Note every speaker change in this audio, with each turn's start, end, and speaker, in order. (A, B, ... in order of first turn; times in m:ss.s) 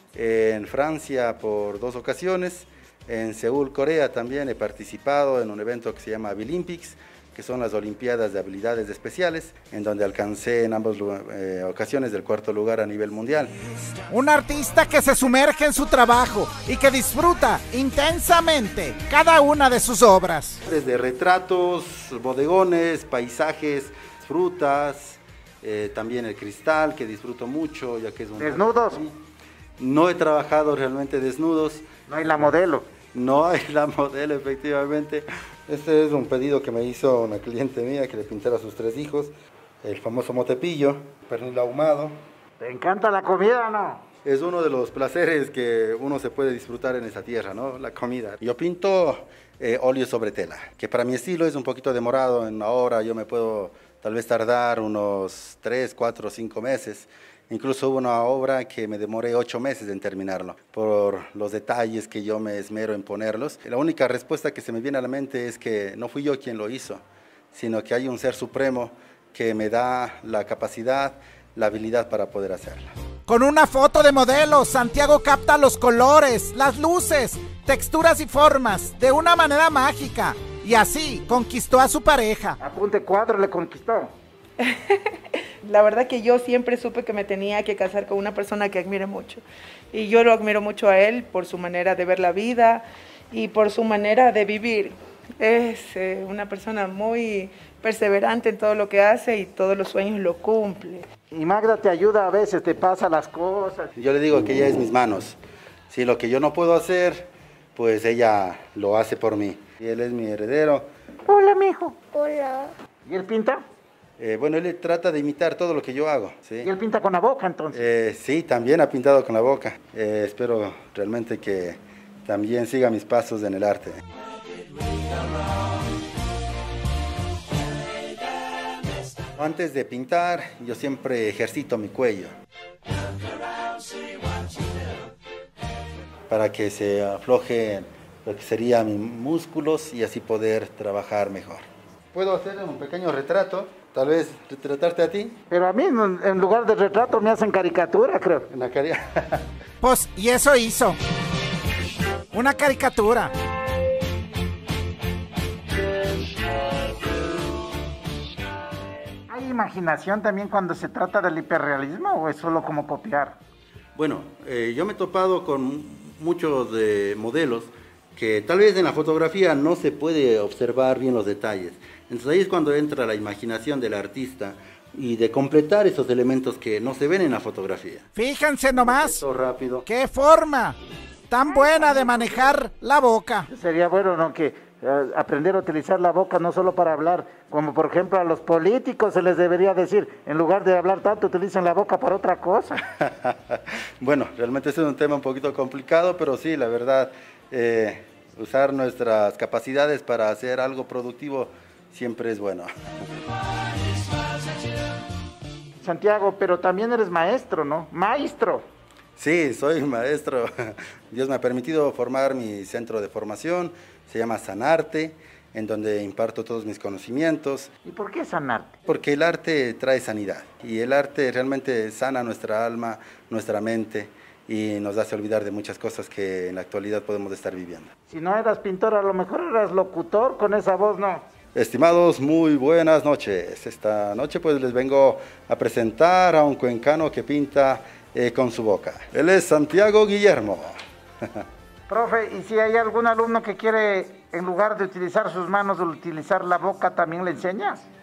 0:00.1-0:13.6 A
0:14.1-0:20.6 B
0:20.6-0:29.2 A
0:28.4-0:29.0 C
0:29.8-0:31.9 A
0:32.1-0:32.9 C
0:33.1-0:42.2 A
0:42.6-0:44.0 C
0:44.2-1:12.9 A
1:13.3-1:22.6 B
1:22.6-1:24.1 C
1:24.6-1:41.0 D
1:41.3-1:43.9 C
1:44.0-1:45.4 A
1:45.9-1:50.9 A
1:51.3-1:53.6 C
1:54.2-1:56.7 A
1:56.6-1:57.8 C
1:57.7-2:04.0 A
2:09.4-2:12.3 A
2:16.3-2:25.4 A
2:25.5-2:28.5 C
2:28.5-2:29.4 A
2:29.8-2:31.0 B
2:32.3-2:33.3 B
2:39.3-2:43.4 C
2:43.9-2:58.0 A
2:58.2-2:59.2 B
2:58.8-2:59.8 A
2:59.8-3:00.8 B
3:01.3-3:03.5 B
3:03.5-3:12.8 C
3:12.9-3:22.7 A
3:25.8-3:28.6 C
3:29.2-3:37.7 A
3:37.8-3:38.7 C
3:38.8-3:47.9 A
3:48.1-3:51.3 C
3:51.5-4:00.8 A
4:01.9-4:07.8 C